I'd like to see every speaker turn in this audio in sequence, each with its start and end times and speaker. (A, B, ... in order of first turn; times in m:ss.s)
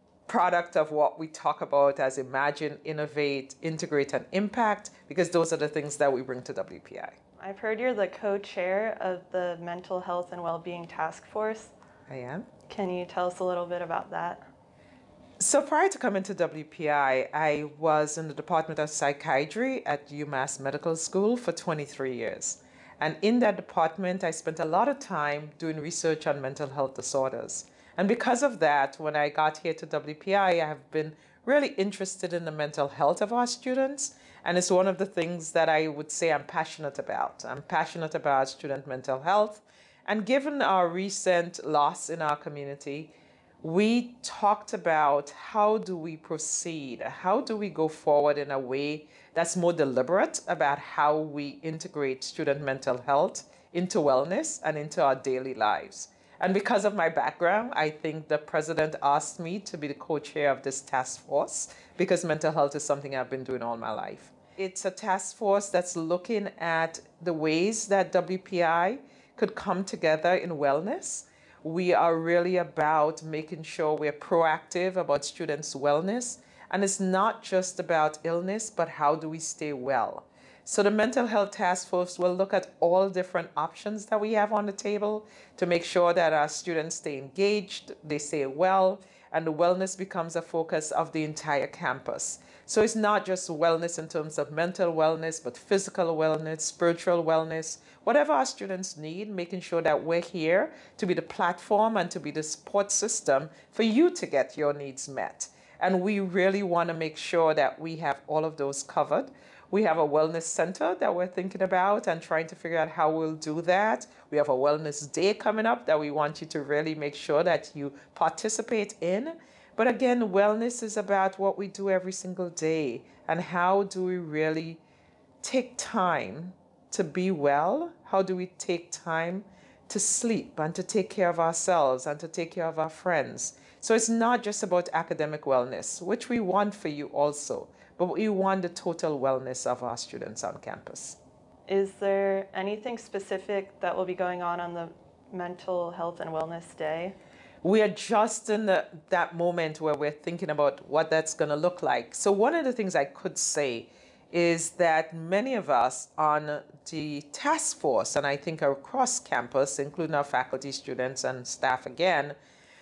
0:00.3-0:07.2 A
0:07.4-0:11.7 B
0:12.1-0:12.5 A
0:12.7-0:14.4 B
0:15.4-2:04.8 A
2:05.4-2:21.2 A
2:21.7-2:27.2 B
2:27.6-2:42.4 A